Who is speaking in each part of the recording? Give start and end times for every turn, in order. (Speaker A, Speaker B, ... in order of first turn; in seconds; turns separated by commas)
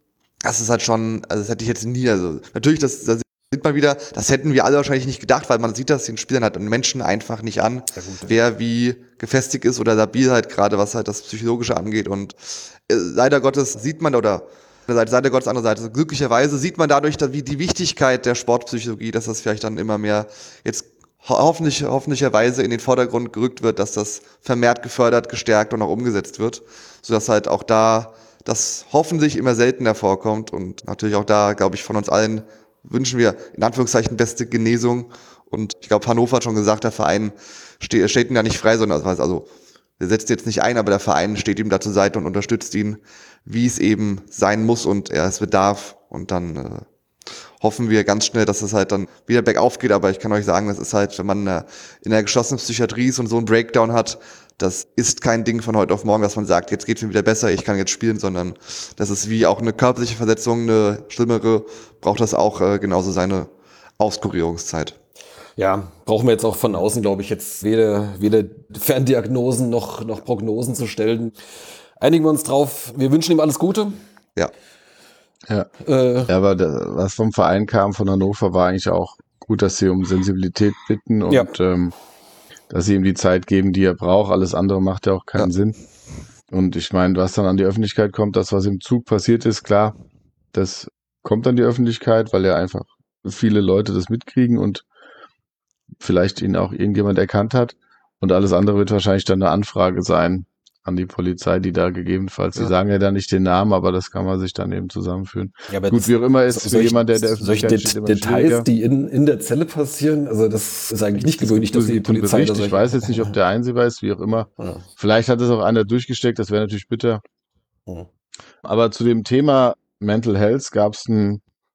Speaker A: 0.5-39.5, Speaker B: 8.0-8.3, Speaker A: 40.0-46.9, Speaker A: 47.6-65.0, Speaker B: 65.6-71.3, Speaker B: 72.0-74.0, Speaker B: 75.8-76.3, Speaker C: 76.3-81.9, Speaker C: 82.7-85.8, Speaker C: 86.5-89.9, Speaker C: 90.5-94.9, Speaker C: 96.0-108.7, Speaker B: 105.7-113.3, Speaker C: 111.2-117.2, Speaker B: 114.6-114.9, Speaker C: 118.6-121.4